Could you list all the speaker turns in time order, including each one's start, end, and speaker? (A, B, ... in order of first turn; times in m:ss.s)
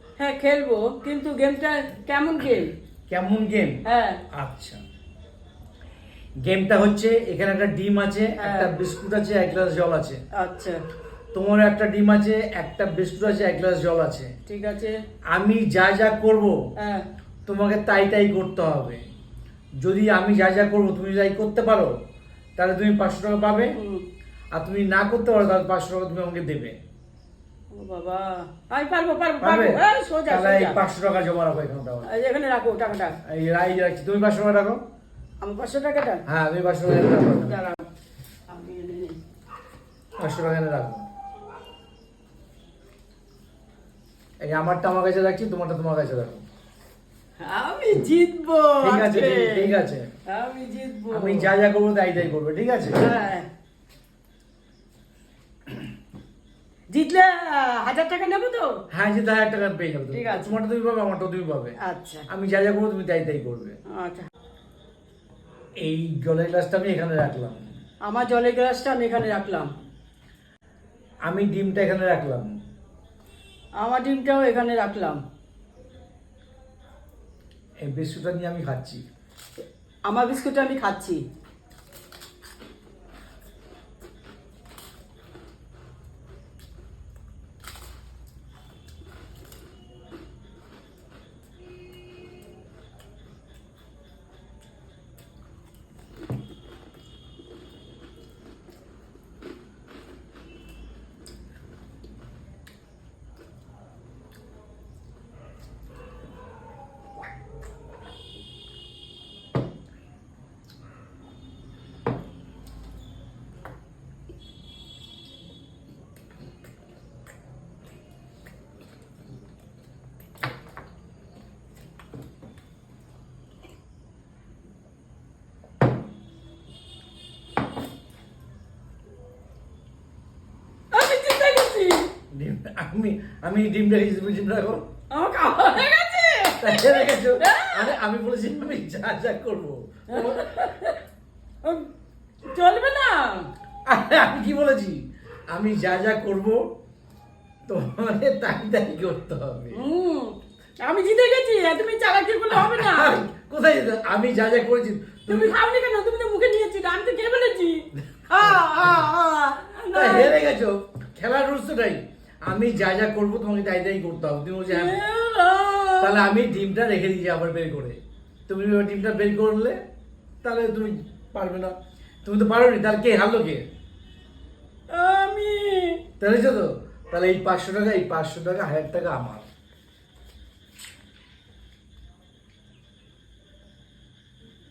0:00.2-0:02.7 A
0:03.1-0:03.8 B
0:03.8-0:04.2 A
0:04.3-0:04.8 B
0:06.4-0:10.2 B
0:08.4-0:08.7 A
0:10.3-0:10.8 A
0:11.3-0:14.3 B
0:14.5-0:15.0 A
0:15.3-0:16.6 B
0:16.8-0:17.0 A
0:17.5-0:19.0 B
0:19.8-0:22.0 B
0:22.6-0:23.8 B
0:23.7-0:24.1 A
0:24.5-0:26.8 B
0:27.7-0:30.8 A
0:29.4-0:32.1 B
0:32.1-0:33.2 A
0:33.2-0:34.8 B
0:35.4-0:36.2 A
0:36.3-0:37.6 B
0:37.5-0:37.9 A
0:38.5-0:39.2 A
0:40.2-0:41.1 B
0:44.4-0:46.4 B
0:47.4-0:49.8 A
0:48.8-0:50.1 B
0:50.3-0:51.5 A
0:51.1-0:53.1 B
0:53.0-0:53.5 A
0:56.9-0:58.8 A
0:58.9-1:01.8 B
1:00.1-1:00.6 A
1:01.8-1:02.3 A
1:02.3-1:03.8 B
1:03.9-1:04.3 A
1:05.8-1:07.7 B
1:08.1-1:09.7 A
1:11.2-1:12.6 B
1:13.8-1:15.2 A
1:17.8-1:19.0 B
1:20.1-1:21.2 A
2:10.9-2:12.1 A
2:12.3-2:14.8 B
2:15.1-2:18.0 A
2:16.6-2:20.9 B
2:20.1-2:21.0 A
2:21.6-2:21.9 A
2:22.5-2:23.5 A
2:23.8-2:26.7 B
2:27.7-2:29.8 B
2:29.7-2:33.2 A
2:32.5-2:35.6 B
2:35.3-2:40.4 A
2:38.1-2:39.0 B
2:39.9-2:45.0 B
2:44.7-2:46.3 A
2:46.0-2:49.8 B
2:50.4-2:53.6 B
2:54.9-2:56.0 A
2:56.2-2:59.5 B